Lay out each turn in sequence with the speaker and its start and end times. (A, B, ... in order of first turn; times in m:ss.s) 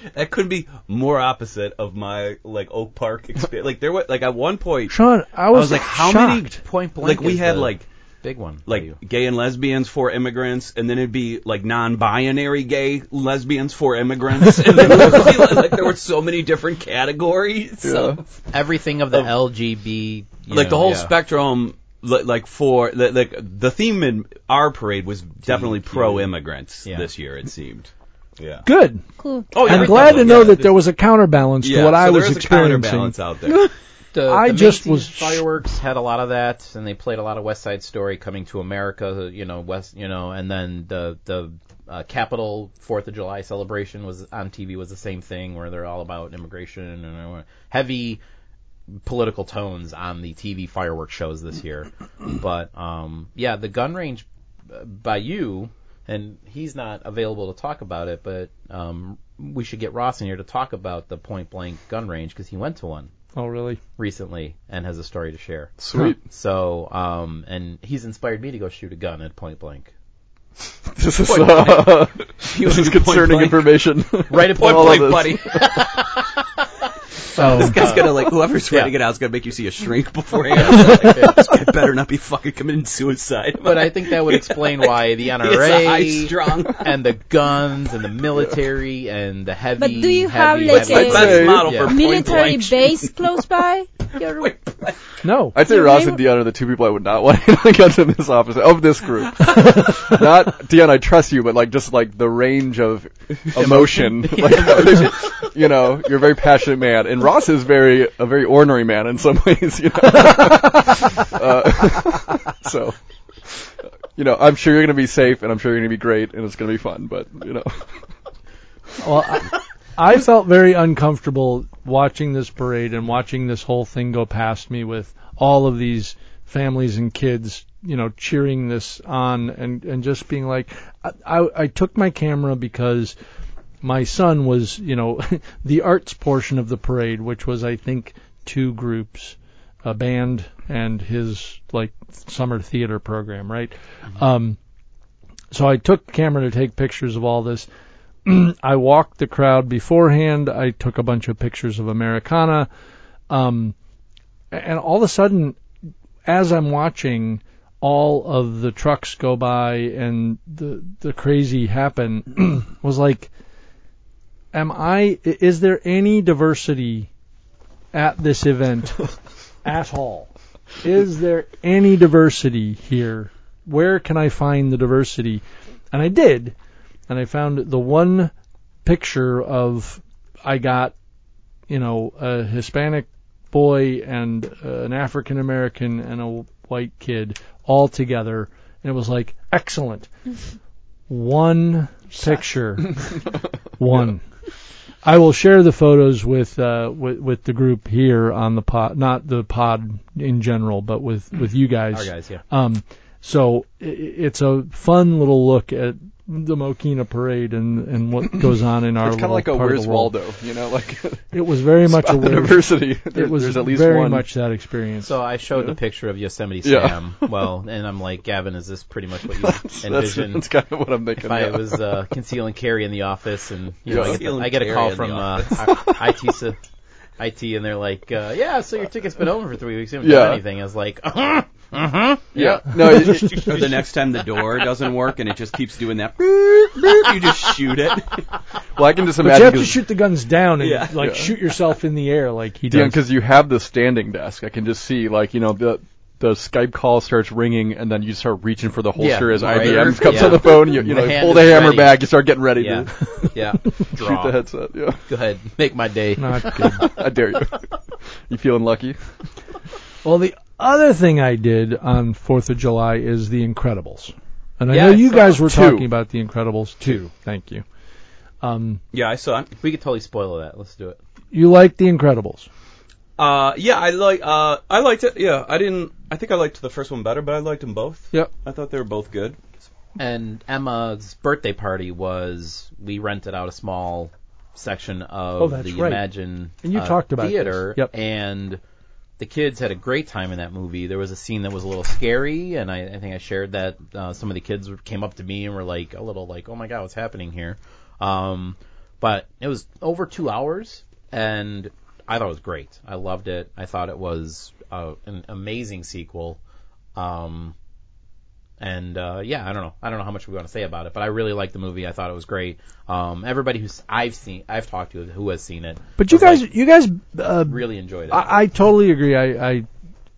0:00.1-0:05.0 A
0:04.9-0:06.6 B
0:05.5-0:07.8 A
0:06.6-0:09.0 C
0:08.6-0:18.2 A
0:17.8-0:18.2 D
0:18.5-0:21.1 C
0:20.5-0:28.6 A
0:25.4-0:26.3 C
0:28.6-0:33.2 B
0:29.2-0:29.5 E
0:29.5-0:30.7 A
0:29.6-0:30.6 C
0:31.6-0:33.7 A
0:34.1-0:48.2 C
0:34.3-0:35.4 B
0:48.9-1:03.1 C
1:03.3-1:03.8 B
1:04.0-1:09.9 C
1:05.8-1:06.2 D
1:10.9-1:15.4 D
1:11.2-1:13.8 A
1:14.3-1:16.4 C
1:14.4-1:15.9 A
1:17.4-1:27.0 A
1:17.4-1:17.8 B
1:17.4-1:18.9 C
1:20.5-1:21.5 C
1:23.6-1:32.4 C
1:29.8-1:34.5 E
1:30.7-1:33.1 A
1:30.8-1:31.8 D
1:34.3-1:35.1 A
1:35.2-1:35.6 B
1:35.5-1:58.0 D
1:35.6-1:36.2 E
1:44.5-1:45.0 C
1:59.0-2:13.1 B
2:13.8-2:24.6 B
2:25.5-2:27.7 B
2:28.2-2:32.7 B
2:33.3-2:33.7 B
2:34.5-2:35.6 B
2:36.2-2:43.3 B
2:44.5-2:47.1 B
2:47.9-2:49.1 B
2:49.6-2:56.5 B
2:57.1-2:58.3 B
2:58.8-3:00.9 B
3:01.7-3:10.1 B
3:11.1-3:13.2 B
3:13.8-3:14.2 B
3:15.0-3:30.1 B
3:21.9-3:22.4 C
3:29.0-3:31.3 D
3:31.3-3:35.1 B
3:31.9-3:34.3 D
3:35.0-3:40.5 C
3:36.6-3:37.3 D
3:39.3-3:42.0 D
3:41.2-3:46.6 C
3:43.9-3:44.2 D
3:43.9-3:45.6 A
3:45.6-3:46.2 D
3:47.2-3:53.6 C
3:50.0-3:50.4 D
3:52.3-3:53.6 D
3:53.0-3:58.2 A
3:58.8-3:59.8 D
3:59.2-4:03.0 B
4:00.6-4:01.0 A
4:01.0-4:01.3 D
4:02.7-4:15.0 D
4:09.0-4:14.4 C
4:09.4-4:10.5 A
4:15.0-4:16.9 C
4:16.2-4:16.8 B
4:16.7-4:17.7 D
4:18.3-4:19.1 D
4:20.0-4:27.6 B
4:24.7-4:25.5 C
4:25.4-4:25.9 D
4:28.4-4:28.8 B
4:28.9-4:29.5 A
4:29.6-4:31.0 C
4:31.3-4:32.5 B
4:33.2-4:39.4 A
4:40.0-4:48.6 C
4:45.4-4:46.0 B
4:46.6-4:47.9 B
4:49.2-5:06.4 C
5:07.0-5:07.5 C
5:08.6-5:16.4 C
5:16.0-5:19.7 B
5:17.4-5:18.3 C